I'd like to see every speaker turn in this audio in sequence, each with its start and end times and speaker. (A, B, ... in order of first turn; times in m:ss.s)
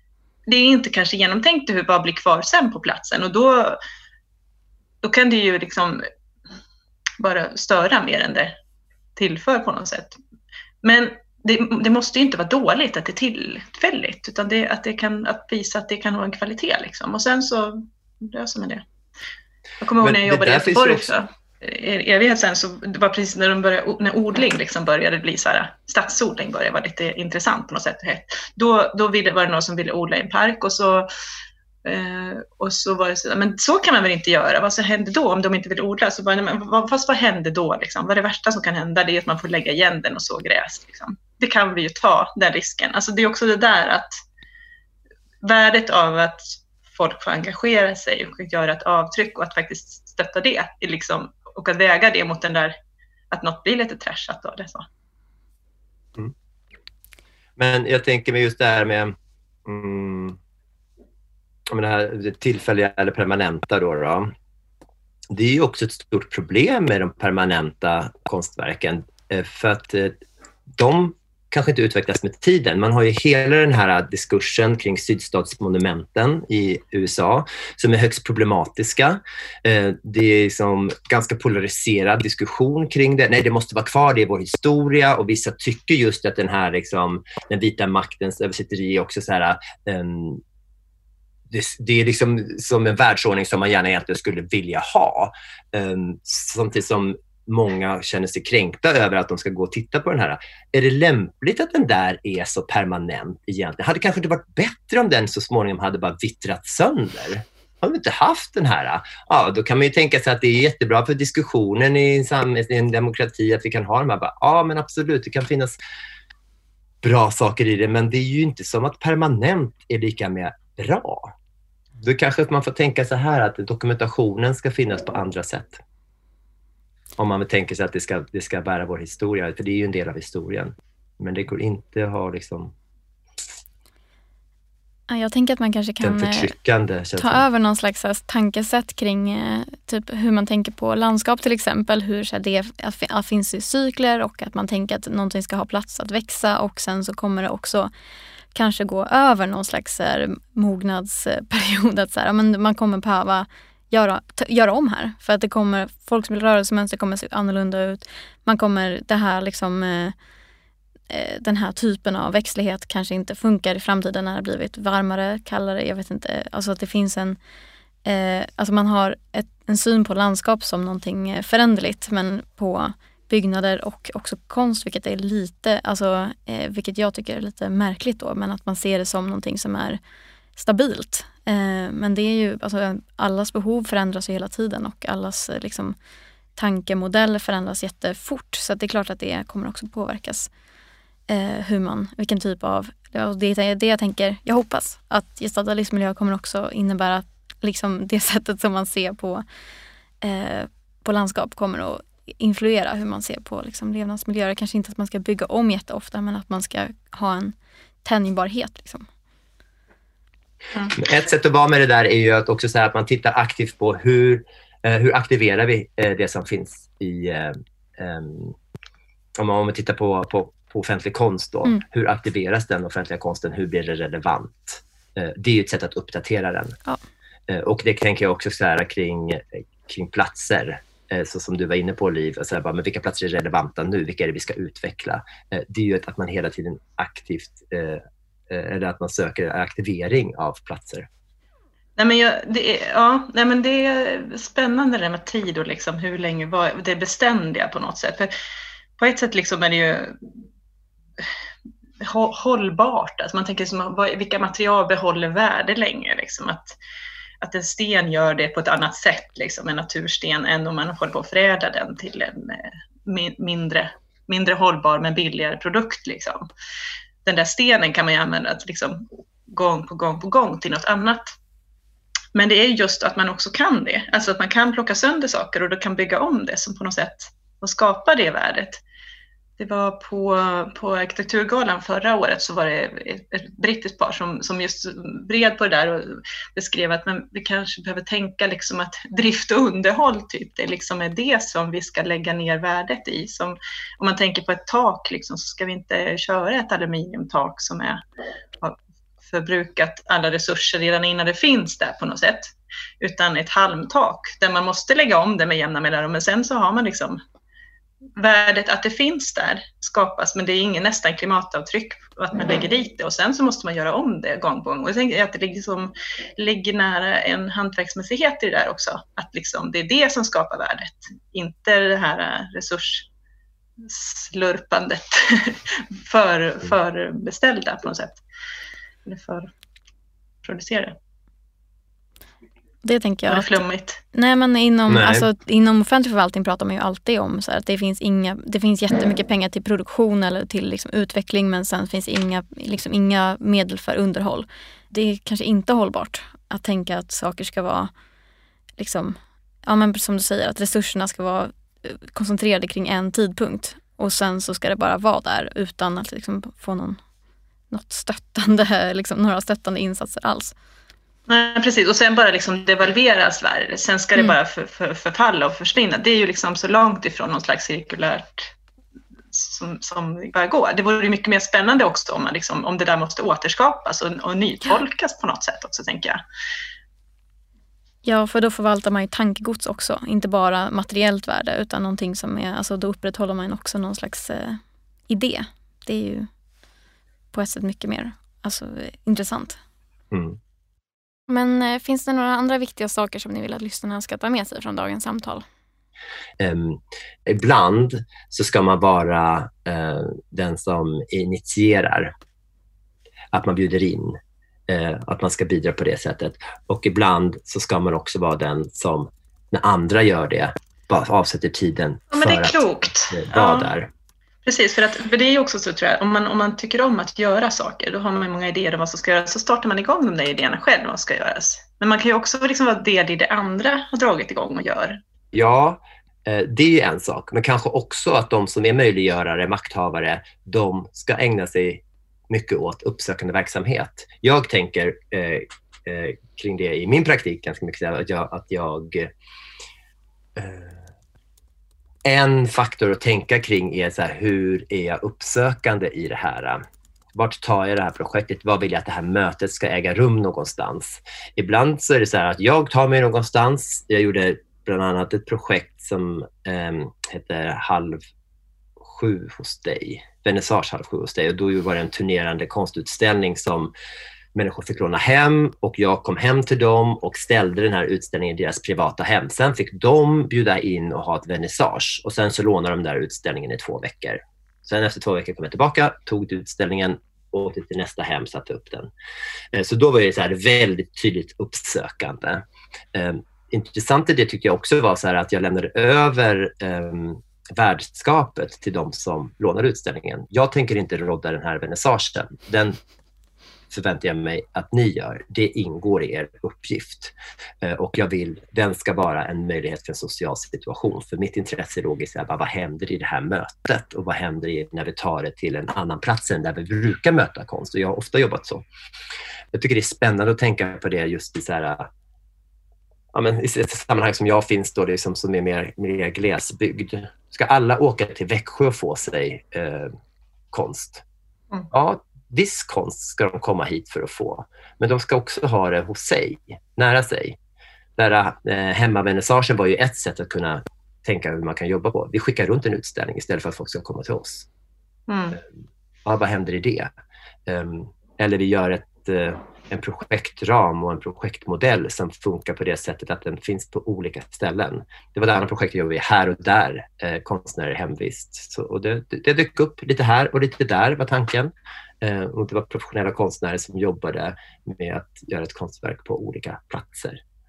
0:00.5-0:03.8 A
0:05.0-0:06.1 A
0:07.2-0:08.6 A
0:09.2-0:10.2 A
0:10.8-0:18.8 A
0:19.8-0:31.1 A
0:20.0-0:21.1 B
0:31.8-0:44.1 A
0:45.4-0:52.8 A
0:53.3-0:54.9 A
0:57.6-1:00.4 B
1:01.7-1:04.3 B
1:05.3-1:10.2 B
1:10.8-1:30.4 B
1:31.5-1:55.8 B
1:57.0-2:01.4 B
2:02.0-2:05.8 B
2:07.2-2:12.7 B
2:15.1-2:16.5 C
2:16.0-2:17.4 B
2:17.2-2:27.9 C
2:28.5-2:40.2 C
2:41.1-2:47.4 C
2:48.0-3:00.0 C
3:00.6-3:06.0 C
3:06.6-3:10.5 C
3:11.3-3:19.4 C
3:20.2-3:29.1 C
3:31.0-3:38.6 B
3:39.4-3:46.8 B
3:47.5-4:01.1 B
4:02.0-4:08.3 A
4:09.0-4:10.3 A
4:12.0-4:16.8 A
4:17.4-4:26.5 A
4:27.2-4:31.4 A
4:32.3-4:38.8 A
4:39.6-4:58.0 A
4:58.6-5:07.2 A
5:08.2-5:23.1 A
5:23.8-5:28.2 A
5:29.0-5:29.5 A
5:30.4-5:31.0 A
5:32.8-5:33.6 C
5:33.3-5:34.0 A
5:34.1-5:47.9 C
5:34.9-5:35.3 B
5:48.8-5:57.0 C
5:57.7-6:00.6 C
6:01.3-6:08.5 A
6:09.3-6:16.2 A
6:18.0-6:26.3 C
6:27.3-6:29.6 C
6:30.1-6:30.4 B
6:31.3-6:35.4 C
6:36.4-6:42.1 B
6:43.3-6:53.9 B
6:52.1-6:53.7 A
6:54.4-7:05.0 A
7:05.3-7:19.1 B
7:20.4-7:20.9 B
7:22.0-7:26.6 B
7:27.1-7:38.0 B
7:38.8-7:43.7 B
7:44.4-7:58.9 B
7:59.5-8:12.8 B
8:13.7-8:28.7 B
8:29.5-8:31.9 B
8:33.1-8:39.9 B
8:40.5-8:41.0 B
8:41.7-8:47.4 B
8:48.0-8:54.5 B
8:55.1-8:55.4 A
8:56.0-8:56.9 B
8:57.5-9:17.2 B